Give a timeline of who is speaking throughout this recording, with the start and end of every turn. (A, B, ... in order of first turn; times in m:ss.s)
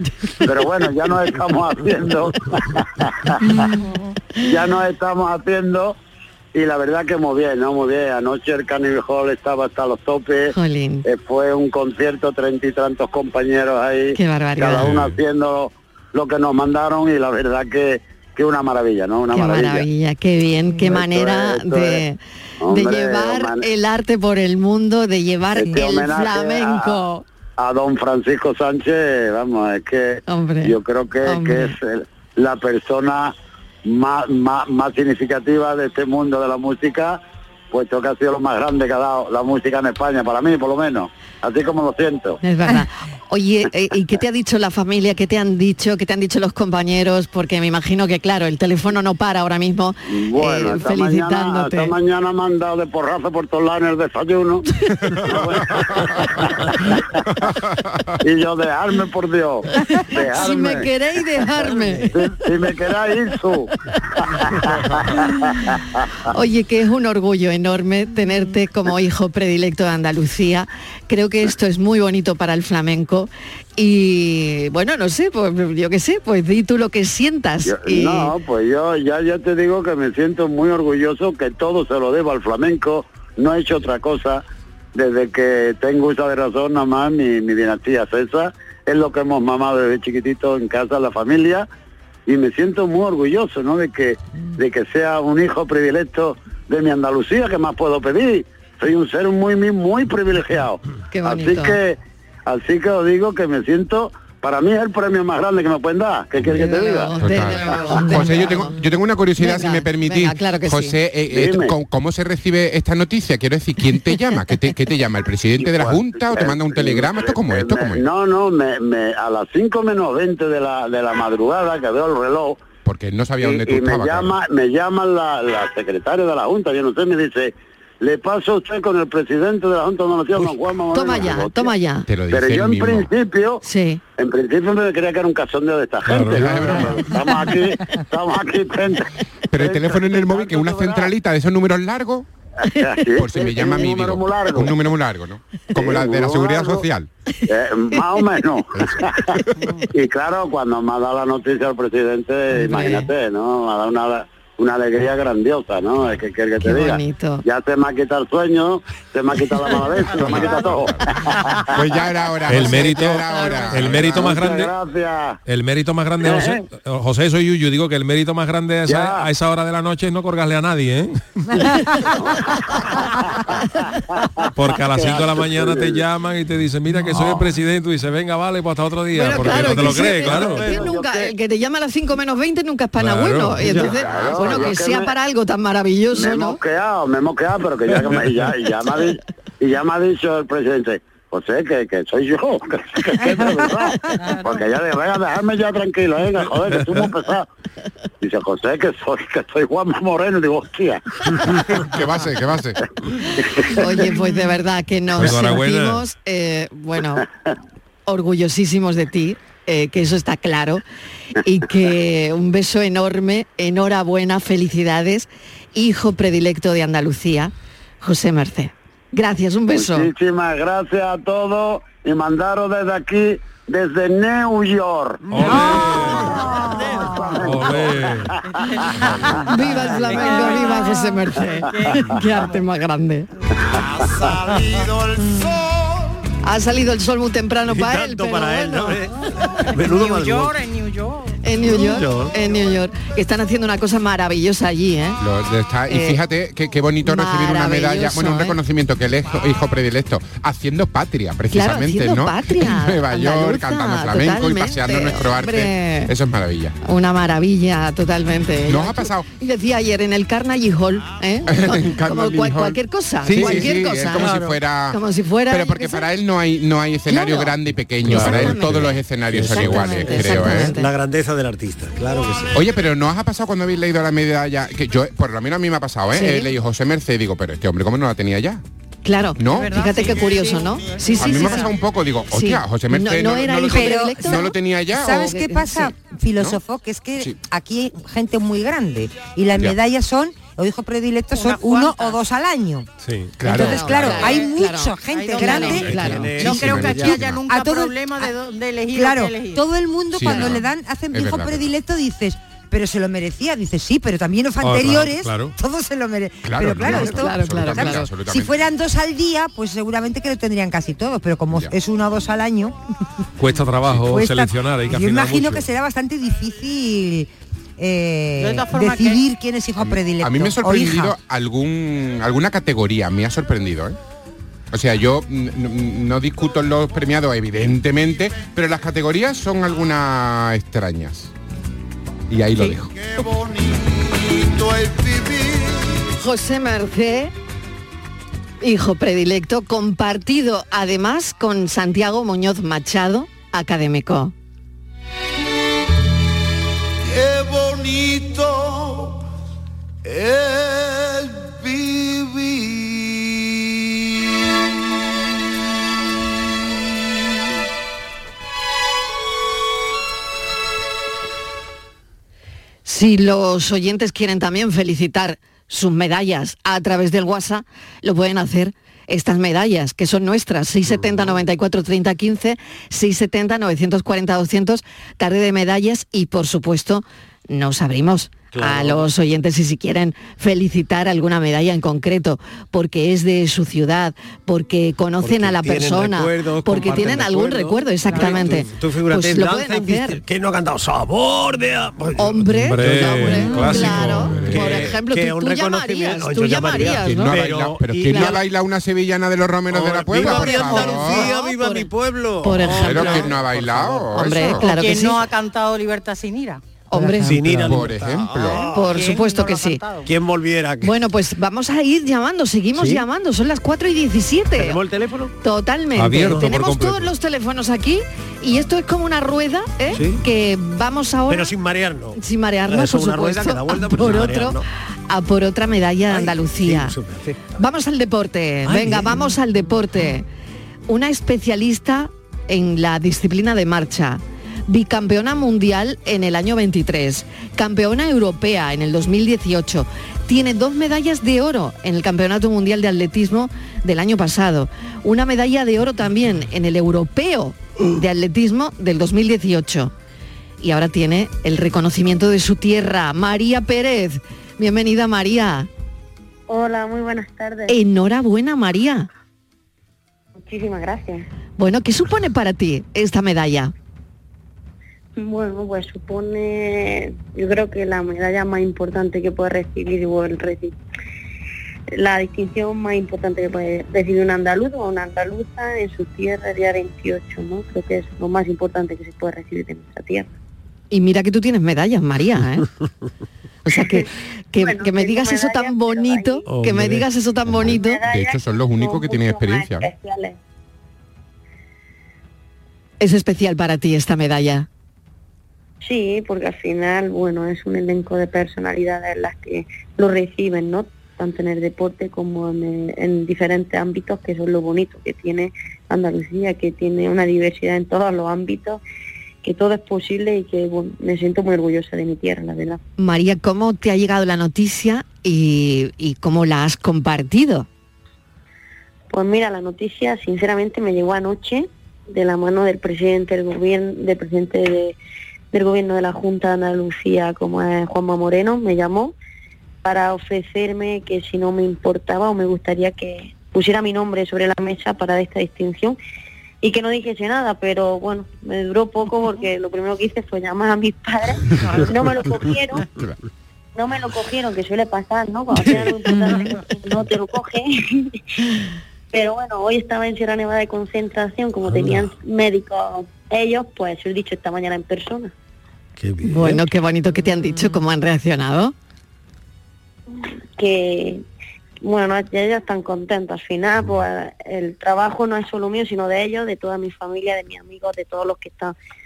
0:00.4-0:03.7 A
0:04.4-0:05.9 A
0:06.5-0:10.5 A
0:10.5-0:11.0 B
0:11.0-0:19.9 A
0:14.1-0:14.9 B
0:19.3-0:27.2 B
0:20.8-0:22.0 A
0:22.6-0:23.6 A
0:25.6-0:27.0 A
0:27.6-0:33.3 A
0:30.3-0:31.7 B
0:33.8-0:37.2 A
0:37.7-0:42.4 A
0:42.4-0:51.9 B
0:50.1-0:57.1 A
0:55.1-0:56.4 C
0:57.4-0:58.2 C
0:58.2-1:00.9 A
0:59.8-1:02.2 B
1:01.6-1:02.0 D
1:02.1-1:06.1 A
1:06.3-1:18.3 B
1:17.6-1:24.4 A
1:24.9-1:31.6 A
1:32.3-1:48.2 A
1:41.1-1:41.8 B
1:46.5-1:48.8 B
1:47.1-1:58.0 C
1:49.4-1:50.9 B
1:51.3-1:51.8 A
1:55.6-2:02.6 A
2:02.8-2:04.3 C
2:03.4-2:11.7 A
2:10.9-2:12.0 B
2:12.1-2:13.1 C
2:12.3-2:13.6 A
2:13.6-2:14.0 B
2:14.2-2:21.1 A
2:16.3-2:17.1 C
2:19.5-2:22.2 C
2:22.7-2:24.8 A
2:23.2-2:27.1 C
2:25.8-2:26.9 A
2:27.5-2:29.4 A
2:29.9-2:41.4 A
2:32.5-2:33.1 B
2:36.6-2:37.4 B
2:39.8-2:41.6 E
2:40.1-2:41.1 C
2:41.7-2:44.4 C
2:42.5-2:42.9 F
2:42.9-2:43.2 D
2:43.8-2:45.4 A
2:45.5-2:45.9 F
2:46.2-2:46.6 A
2:47.1-2:47.7 F
2:48.3-2:48.6 F
2:48.9-2:49.3 A
2:49.4-2:49.6 F
2:52.2-2:56.0 A
2:59.1-3:06.6 B
2:59.3-3:00.6 D
2:59.6-3:00.3 F
3:00.2-3:01.3 A
3:03.6-3:04.0 D
3:03.8-3:05.1 A
3:03.9-3:04.8 C
3:06.1-3:17.5 A
3:14.3-3:14.6 E
3:18.2-3:21.0 A
3:21.4-3:22.8 C
3:23.4-3:23.9 A
3:23.8-3:27.2 B
3:25.2-3:25.6 F
3:28.1-3:30.8 B
3:31.4-3:40.1 B
3:39.8-3:48.3 A
3:45.4-3:46.2 G
3:47.0-3:47.4 E
3:48.4-3:52.5 E
3:49.5-3:53.3 B
3:53.7-3:56.2 G
3:56.4-3:59.0 B
3:57.7-4:00.6 D
3:59.6-4:02.0 E
4:01.4-4:05.2 B
4:01.7-4:02.4 D
4:05.2-4:16.8 C
4:05.9-4:06.2 B
4:07.0-4:08.6 B
4:11.5-4:16.1 B
4:16.8-4:24.4 B
4:18.7-4:19.3 C
4:21.5-4:30.8 C
4:23.4-4:24.6 D
4:24.9-4:26.1 B
4:27.1-4:30.9 B
4:28.1-4:28.8 D
4:29.3-4:32.6 D
4:32.0-4:32.5 G
4:32.5-4:38.6 C
4:36.1-4:36.5 B
4:39.0-4:41.6 B
4:39.4-4:39.8 C
4:39.5-4:41.8 E
4:41.1-4:45.3 C
4:42.3-4:44.5 B
4:43.7-4:52.9 H
4:45.0-4:45.9 B
4:51.3-4:52.2 E
4:53.4-4:54.3 C
4:53.4-4:58.3 H
4:53.4-4:56.8 B
4:54.1-4:54.4 E
4:55.1-4:59.6 E
4:55.6-4:57.2 D
4:56.1-4:57.4 C
4:58.9-5:12.8 H
5:00.1-5:01.7 C
5:00.2-5:00.5 E
5:04.6-5:05.5 F
5:06.4-5:08.5 C
5:06.8-5:08.1 B
5:13.4-5:15.6 F
5:13.9-5:21.1 H
5:18.4-5:19.2 E
5:19.8-5:24.0 C
5:24.7-5:31.3 C
5:32.3-5:32.9 C
5:32.9-5:36.0 G
5:36.2-5:37.3 B
5:38.6-5:44.3 B
5:47.0-5:49.2 G
5:50.0-5:53.8 G
6:02.8-6:30.2 B
6:10.9-6:11.4 D
6:18.5-6:19.1 D
6:25.2-6:38.4 D
6:32.2-6:37.4 B
6:32.8-6:34.4 F
6:36.9-6:41.4 C
6:38.1-6:38.4 B
6:39.7-6:44.4 D
6:40.2-6:41.9 B
6:42.4-6:43.3 B
6:42.7-6:44.7 C
6:44.1-6:45.2 B
6:44.6-6:46.6 E
6:46.9-6:47.7 B
6:46.9-6:49.0 D
6:47.5-6:48.6 C
6:48.7-6:49.8 B
6:48.8-6:50.1 E
6:50.0-6:50.9 D
6:50.8-6:54.8 B
6:52.8-6:53.0 D
6:54.6-6:55.3 D
6:55.4-7:01.5 B
6:56.0-6:56.9 F
6:56.1-6:56.6 D
6:59.9-7:00.2 D
7:01.3-7:04.6 D
7:02.2-7:06.9 B
7:06.1-7:07.4 D
7:07.6-7:10.2 B
7:08.6-7:09.4 D
7:10.9-7:29.9 B
7:30.6-7:35.7 B
7:36.5-7:37.8 I
7:37.7-7:39.1 B
7:40.4-7:41.3 I
7:41.6-7:43.7 B
7:45.2-7:50.8 I
7:51.9-8:00.3 I
8:00.9-8:02.6 B
8:03.6-8:08.0 B
8:03.7-8:06.5 I
8:07.6-8:10.4 I
8:08.1-8:09.9 C
8:13.0-8:14.7 B
8:15.8-8:28.8 I
8:29.4-8:32.8 I
8:33.0-8:37.7 B
8:39.1-8:45.0 I
8:45.5-8:49.1 I
8:49.8-8:56.0 I
8:56.6-9:02.8 I
9:01.6-9:01.9 E
9:03.8-9:08.2 I
9:09.1-9:15.3 I
9:11.6-9:12.1 D
9:16.0-9:16.7 D
9:16.2-9:18.7 B
9:20.2-9:21.2 I
9:21.8-9:28.8 I